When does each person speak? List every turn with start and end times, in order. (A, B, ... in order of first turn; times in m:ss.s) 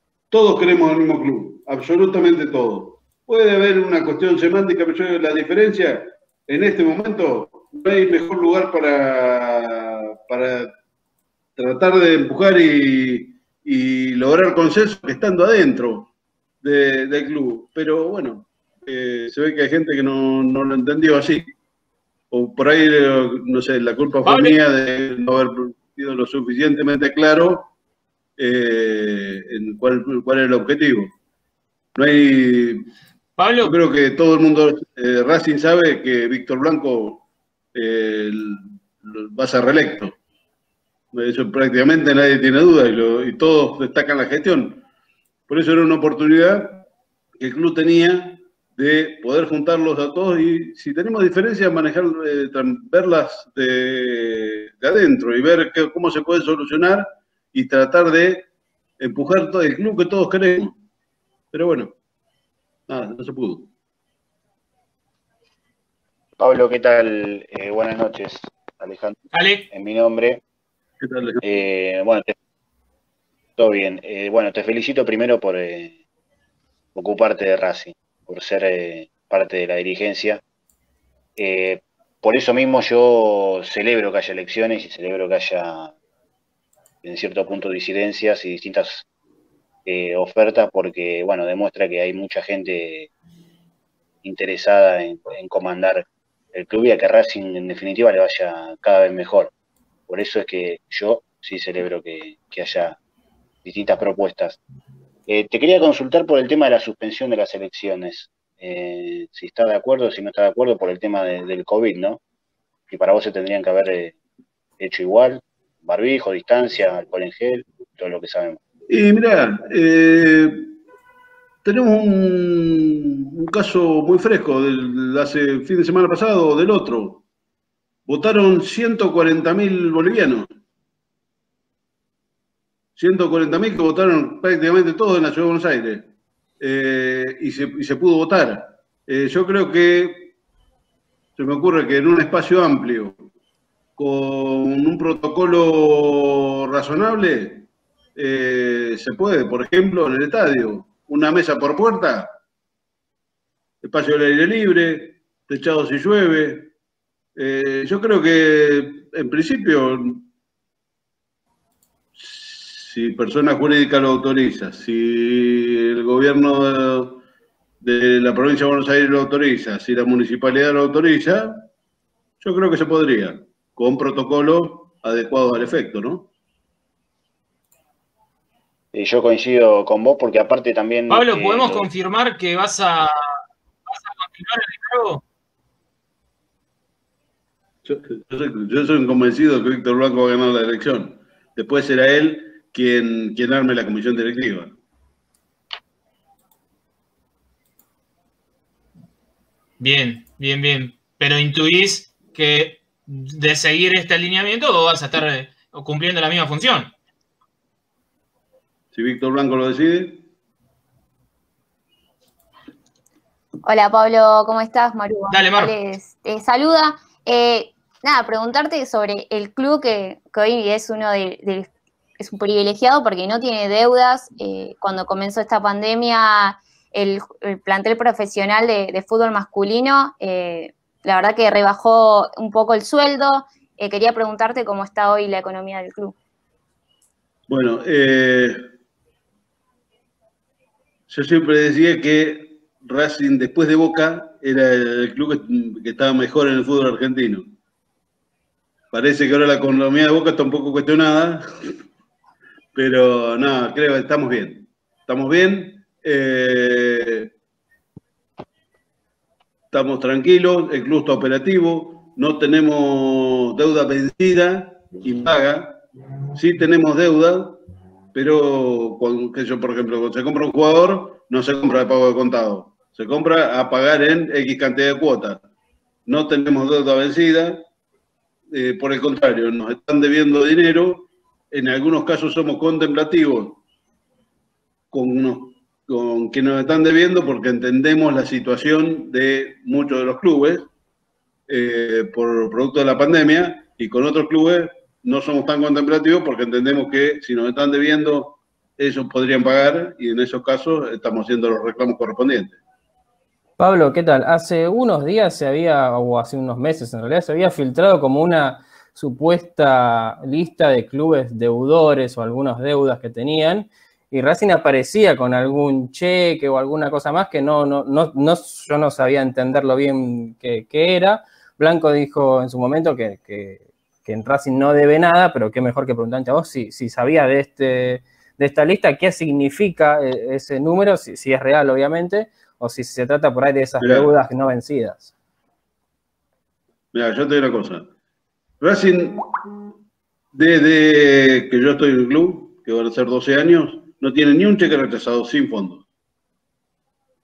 0:00.3-0:10.7 A
0:11.6-0:16.1 A
0:16.6-0:21.5 A
0:22.3-0:27.7 A
0:24.2-0:24.6 B
0:28.4-0:31.1 A
0:32.0-0:32.9 A
0:33.4-0:33.8 B
0:33.6-0:37.2 A
0:37.8-0:40.2 A
0:41.1-0:44.8 A
0:45.5-0:46.8 A
0:47.4-0:58.5 A
0:59.0-1:00.8 A
1:01.5-1:01.9 A
1:02.9-1:03.7 A
1:06.4-1:10.4 C
1:09.3-1:09.7 B
1:11.0-1:11.5 A
1:11.4-1:12.4 C
1:13.6-1:16.0 C
1:17.0-1:20.4 C
1:21.4-1:25.9 C
1:27.0-1:29.1 C
1:29.9-1:33.1 C
1:34.2-1:39.5 C
1:40.1-1:43.0 C
1:43.6-1:44.6 C
1:45.3-1:52.2 C
1:52.9-1:54.2 C
1:54.8-1:58.6 C
1:58.9-2:00.8 A
2:01.6-2:07.2 A
2:08.1-2:10.5 A
2:13.0-2:20.3 A
2:21.4-2:23.2 A
2:24.0-2:32.4 A
2:33.8-2:36.7 A
2:37.4-2:40.3 A
2:42.2-2:47.2 A
2:47.8-2:51.7 A
2:52.4-2:56.3 A
2:58.9-3:01.9 C
3:01.1-3:05.2 B
3:07.8-3:14.8 A
3:19.8-3:26.9 B
3:28.9-3:30.3 A
3:33.7-3:56.2 D
3:35.3-3:35.7 B
3:57.5-3:58.6 A
4:01.1-4:07.5 A
4:08.9-4:11.8 A
4:12.8-4:17.3 A
4:19.7-4:25.8 A
4:26.4-4:27.6 A
4:28.1-4:35.4 A
4:36.1-4:37.6 A
4:38.5-4:43.6 A
4:44.9-4:50.7 A
4:51.5-5:02.6 A
5:03.6-5:35.1 E
5:33.8-5:34.1 A
5:36.9-5:37.9 A
5:38.6-5:39.2 A
5:40.3-5:45.8 A